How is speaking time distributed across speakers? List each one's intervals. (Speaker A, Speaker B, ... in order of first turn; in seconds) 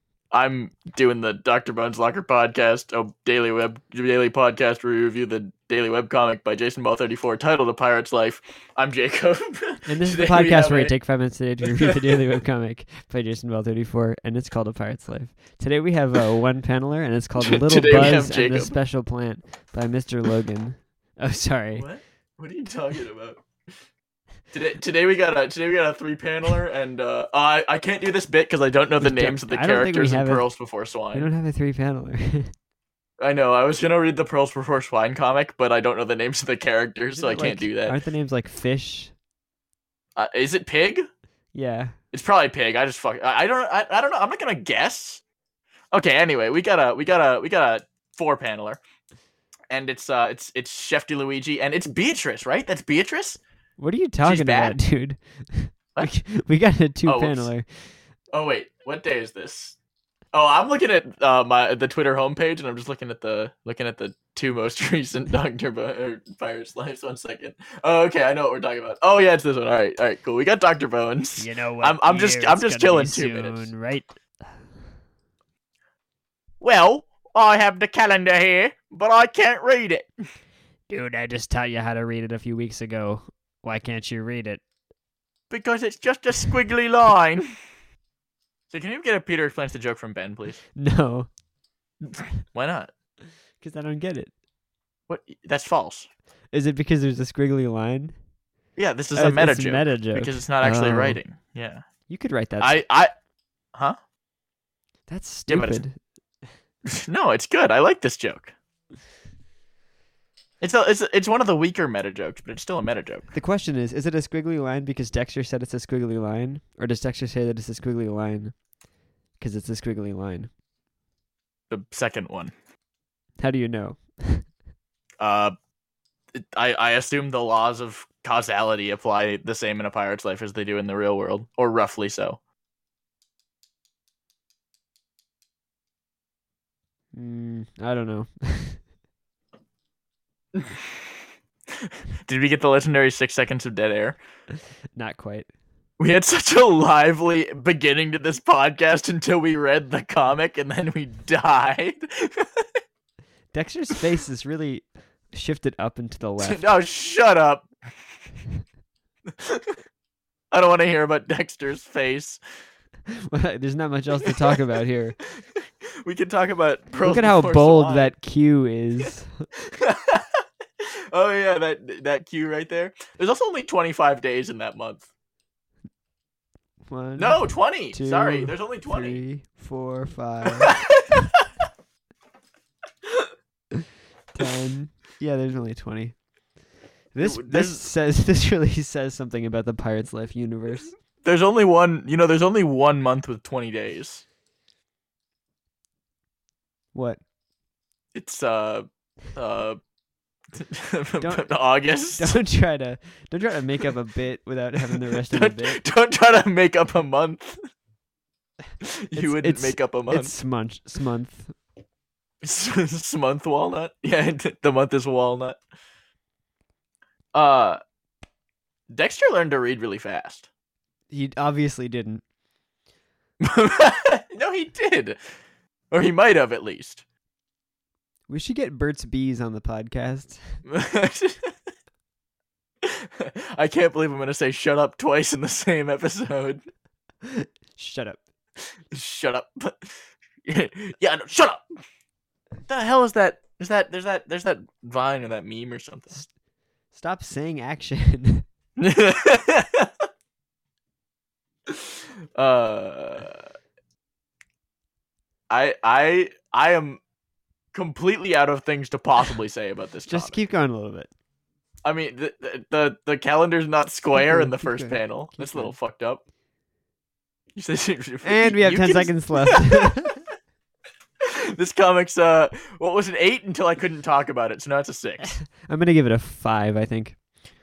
Speaker A: 0.3-10.9, 17.5-18.8, 21.8-23.4, 24.5-31.3, 33.2-38.0, 40.2-41.0, 42.1-45.2, 45.9-48.8, 49.7-53.4, 54.2-54.8, 57.1-57.5, 58.3-59.8, 60.3-73.7, 76.6-80.1, 85.5-87.5, 88.7-90.6, 92.5-92.9, 95.1-96.1, 98.8-101.8, 102.6-103.1, 105.5-105.8, 107.0-108.5, 110.6-113.3, 121.7-122.5, 125.2-125.5, 126.5-132.4, 140.6-140.8, 142.2-144.2, 146.0-152.6, 156.4-157.7, 159.5-159.7, 160.5-162.4, 166.1-168.1, 169.8-170.2, 171.1-175.1, 177.2-179.2, 187.2-187.9, 191.2-194.2, 198.1-199.8, 200.6-202.4, 205.3-207.6, 208.8-210.3, 212.4-215.6, 217.3-217.8, 218.9-220.5, 223.4-225.2, 225.9-227.0, 230.7-231.5, 232.8-236.6, 238.9-239.9, 240.5-241.6, 242.7-246.3, 248.8-249.9, 252.4-253.4, 255.5-257.0, 257.7-260.4, 261.9-266.2, 267.6-269.6, 271.6-275.4
Speaker B: 9.9-21.9, 29.0-30.5, 31.1-32.5, 37.1-39.1, 41.5-42.0, 53.8-58.0, 71.4-74.6, 80.9-84.6, 90.8-91.3, 93.6-94.3, 96.5-98.2, 99.2-101.2, 102.1-102.8, 105.1-106.0, 113.3-118.6, 119.4-120.5, 123.4-124.5, 137.2-138.8, 144.9-145.5, 153.5-156.6, 163.3-165.2, 167.0-169.5, 176.9-180.8, 184.3-186.2, 187.1-190.9, 196.9-197.2, 201.2-205.8, 209.2-211.6, 221.1-222.2, 228.3-230.6, 237.3-238.2, 246.9-248.5, 260.1-261.1, 264.1-265.8, 268.2-270.2, 275.6-277.2